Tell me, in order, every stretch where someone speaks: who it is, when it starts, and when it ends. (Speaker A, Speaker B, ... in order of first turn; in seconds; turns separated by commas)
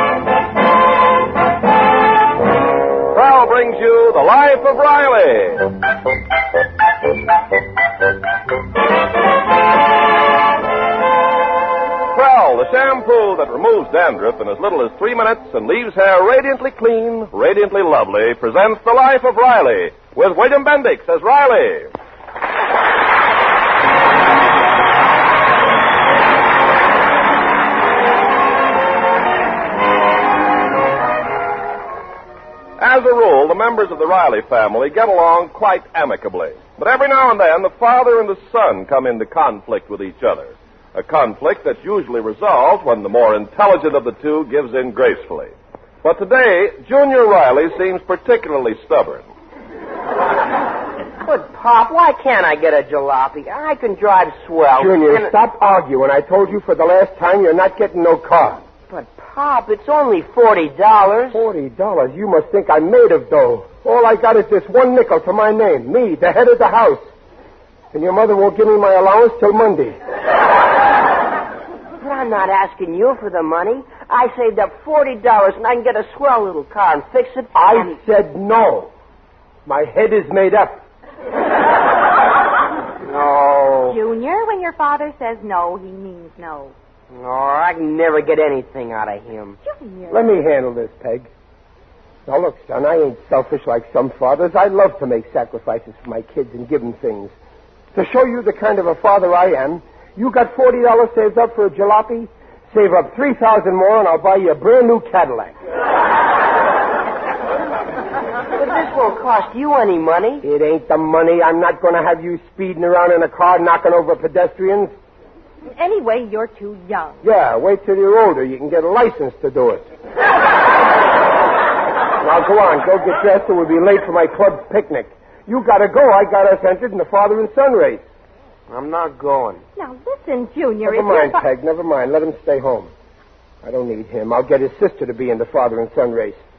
Speaker A: 3.1-5.8, Speaker A: 12.1-21.9, Speaker A: 32.8-49.3, Speaker B: 51.2-55.3, Speaker C: 54.8-58.6, Speaker B: 58.9-61.4, Speaker C: 61.3-67.1, Speaker C: 67.9-70.0, Speaker B: 72.0-78.0, Speaker C: 77.5-78.9, Speaker C: 79.7-80.8, Speaker B: 83.0-84.0, Speaker D: 83.8-86.7, Speaker B: 87.1-89.6, Speaker D: 89.6-90.3, Speaker C: 90.1-91.3, Speaker C: 92.2-97.3, Speaker C: 97.9-105.5, Speaker B: 108.5-110.4, Speaker C: 110.4-114.9, Speaker D: 115.7-117.2, Speaker C: 117.2-119.9, Speaker C: 122.2-128.0, Speaker B: 128.7-129.6, Speaker D: 129.8-131.4, Speaker C: 130.8-132.9, Speaker C: 133.6-136.4